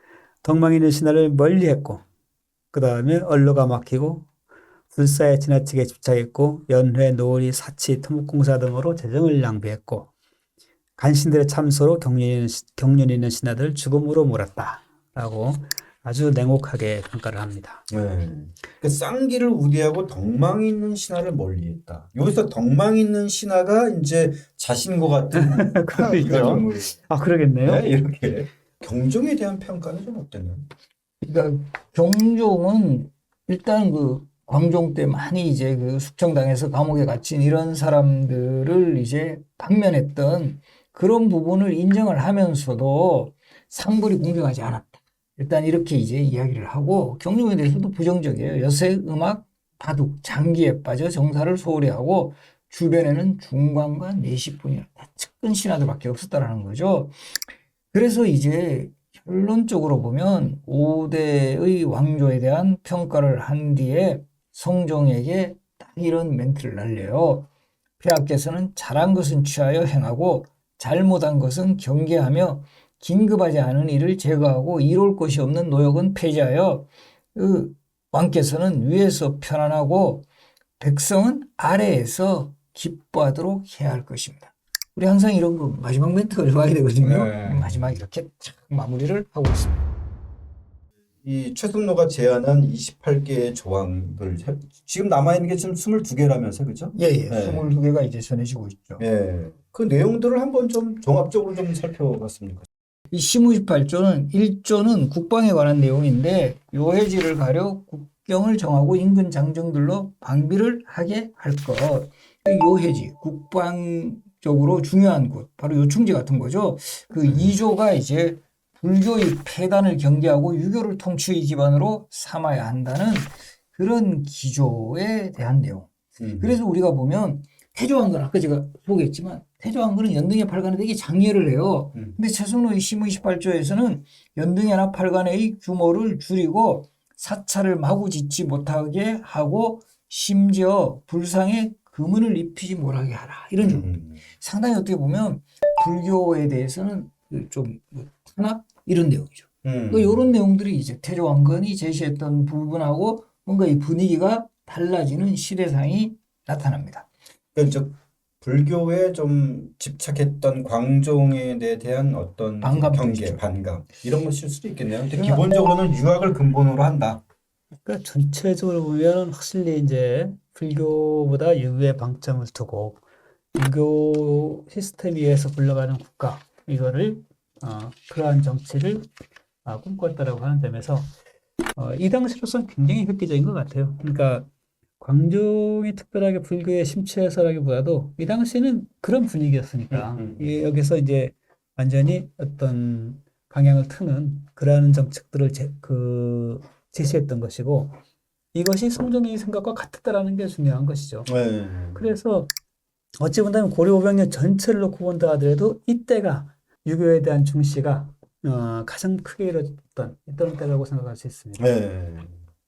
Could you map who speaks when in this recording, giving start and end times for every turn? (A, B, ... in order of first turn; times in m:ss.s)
0:00.4-0:02.0 A
0:02.7-0:04.2 A
0:04.9-0:10.1 A
0:11.0-0:17.8 A
0:17.9-0:26.9 B
0:25.3-0:27.8 A
0:26.0-0:26.8 C
0:27.6-0:30.7 B
0:31.2-0:57.2 C
0:57.9-1:07.5 C
1:08.0-1:20.3 C
1:20.8-1:29.9 C
1:27.0-1:28.0 B
1:31.2-1:37.7 B
1:37.0-1:39.0 C
1:39.0-1:42.6 B
1:43.1-2:05.9 C
1:57.3-1:57.5 B
2:06.2-2:06.6 B
2:06.4-2:37.1 C
2:23.6-2:24.2 B
2:29.6-2:30.3 B
2:37.5-2:47.2 B
2:42.6-2:43.4 C
2:45.2-2:45.5 C
2:47.8-2:53.0 A
2:53.5-2:59.1 A
2:59.6-3:01.1 A
3:01.7-3:04.5 A
3:05.0-3:18.0 A
3:09.9-3:10.6 B
3:18.5-3:21.3 A
3:21.3-3:22.1 B
3:21.9-3:22.5 A
3:23.2-3:31.6 A
3:31.6-3:32.4 B